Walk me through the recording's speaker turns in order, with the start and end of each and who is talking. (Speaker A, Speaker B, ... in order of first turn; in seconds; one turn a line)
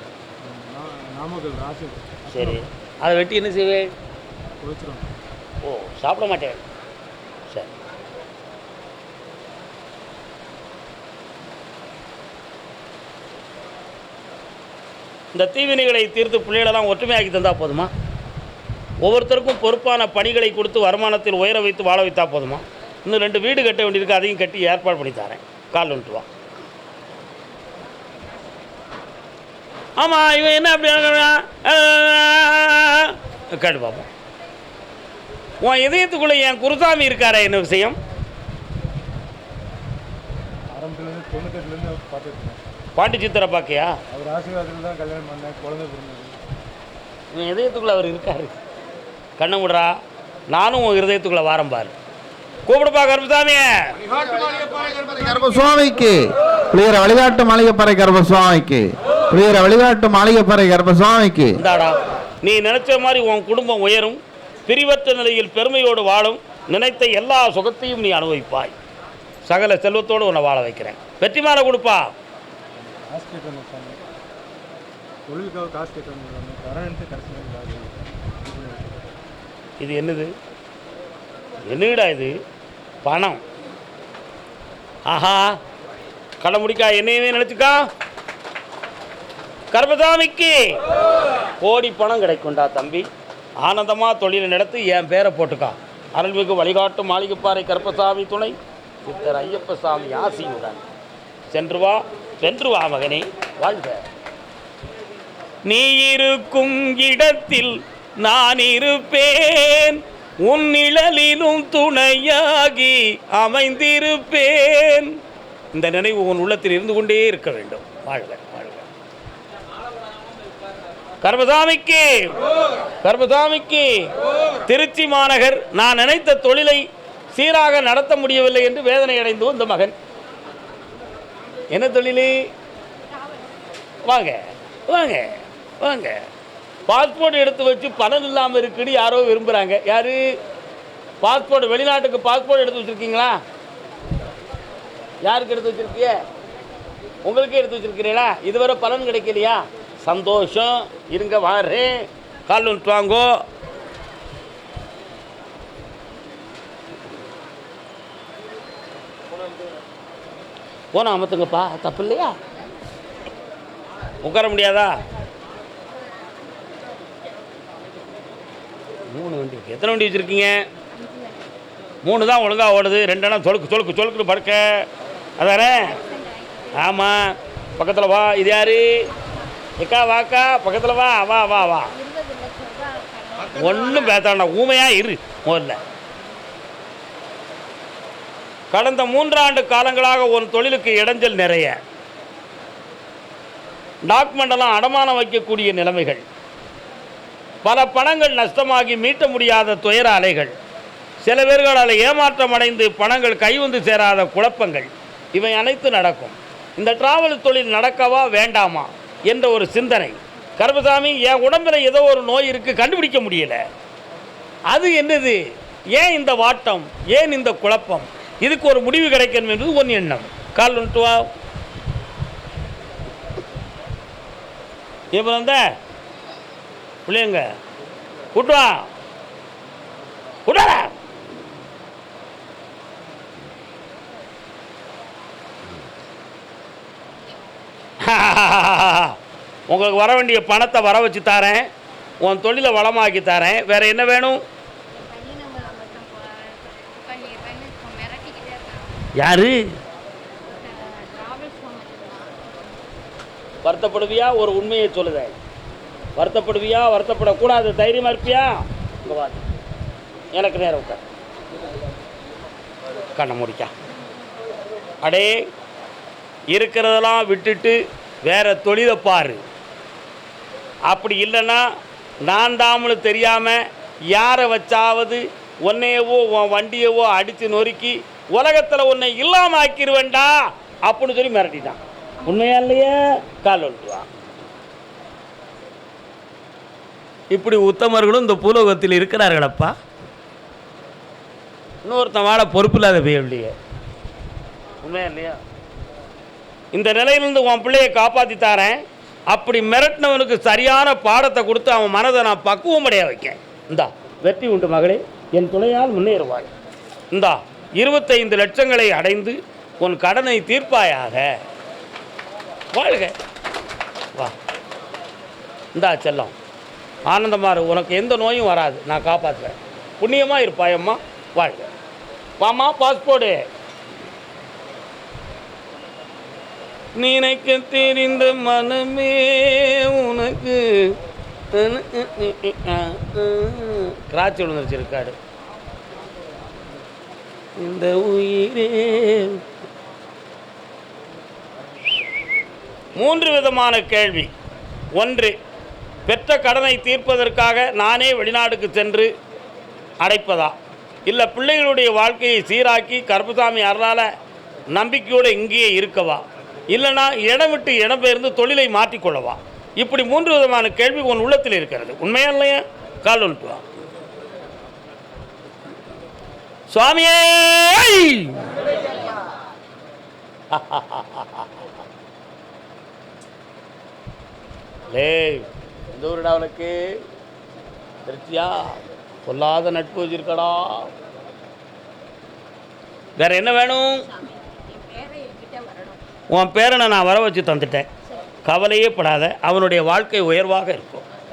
Speaker A: 0.4-2.6
Speaker B: 2.3-3.9
Speaker A: 4.6-5.1
Speaker B: 5.6-6.6
Speaker B: 15.3-17.9
Speaker B: 19.0-26.2
Speaker B: 30.0-34.1
Speaker B: 35.6-38.0
Speaker A: 40.7-42.6
Speaker B: 43.0-43.9
Speaker A: 44.1-46.4
Speaker B: 47.3-48.5
Speaker B: 49.4-50.0
Speaker B: 50.5-51.9
Speaker B: 52.7-54.0
Speaker C: 54.9-61.5
Speaker B: 61.6-68.7
Speaker B: 69.5-72.0
Speaker A: 72.7-74.0
Speaker A: 75.3-78.9
Speaker B: 79.8-80.3
Speaker B: 81.6-82.3
Speaker B: 83.0-83.4
Speaker B: 85.1-85.6
Speaker B: 86.4-87.8
Speaker B: 89.7-90.8
Speaker B: 91.6-93.1
Speaker B: 93.6-100.8
Speaker B: 101.5-104.0
Speaker B: 105.7-115.2
Speaker B: 115.7-118.9
Speaker B: 121.2-122.3
Speaker B: 123.0-124.0
Speaker B: 124.7-129.9
Speaker B: 131.7-132.3
Speaker B: 134.1-136.2
Speaker B: 136.9-140.2
Speaker B: 141.2-143.4
Speaker B: 145.2-146.2
Speaker B: 147.2-153.4
Speaker B: 160.9-162.3
Speaker B: 164.2-164.9
Speaker B: 169.1-170.6
Speaker D: 170.9-171.5
Speaker B: 172.0-174.8
Speaker B: 175.4-175.9
Speaker D: 175.8-176.8
Speaker B: 176.7-179.0
Speaker B: 179.8-181.9
Speaker D: 181.9-184.1
Speaker B: 183.5-185.8
Speaker B: 188.7-191.8
Speaker B: 194.1-196.2
Speaker B: 197.6-200.5
Speaker B: 201.2-213.6
Speaker B: 214.7-215.4
Speaker B: 215.9-221.3
Speaker B: 225.1-225.6
Speaker B: 227.1-227.4
Speaker B: 228.3-228.9
Speaker B: 230.5-230.9
Speaker B: 238.0-239.1
Speaker B: 239.7-241.7
Speaker B: 242.2-244.4
Speaker D: 244.9-249.0
Speaker B: 249.2-249.8
Speaker D: 250.4-252.3
Speaker B: 253.6-255.3
Speaker B: 256.2-259.4
Speaker B: 260.4-261.0
Speaker B: 263.1-263.7
Speaker B: 265.0-265.4
Speaker B: 266.5-269.4
Speaker B: 270.9-271.6
Speaker B: 272.2-284.1
Speaker B: 287.3-289.7
Speaker B: 291.8-293.5
Speaker B: 294.8-295.4
Speaker B: 296.7-298.8
Speaker B: 299.3-306.5
Speaker B: 307.1-311.3
Speaker B: 312.7-313.1
Speaker B: 315.7-316.3
Speaker B: 317.1-321.7
Speaker B: 322.4-323.4
Speaker B: 326.9-330.9
Speaker B: 331.5-335.1
Speaker B: 337.6-339.4
Speaker B: 343.0-344.3
Speaker B: 344.9-345.3
Speaker B: 346.1-349.1
Speaker B: 350.0-350.5
Speaker B: 351.1-354.1
Speaker B: 354.7-363.6
Speaker B: 366.7-368.4
Speaker B: 370.5-371.5
Speaker B: 374.9-376.8
Speaker B: 378.1-380.9
Speaker B: 383.2-384.0
Speaker D: 384.1-386.0
Speaker B: 386.3-387.9
Speaker B: 388.4-391.0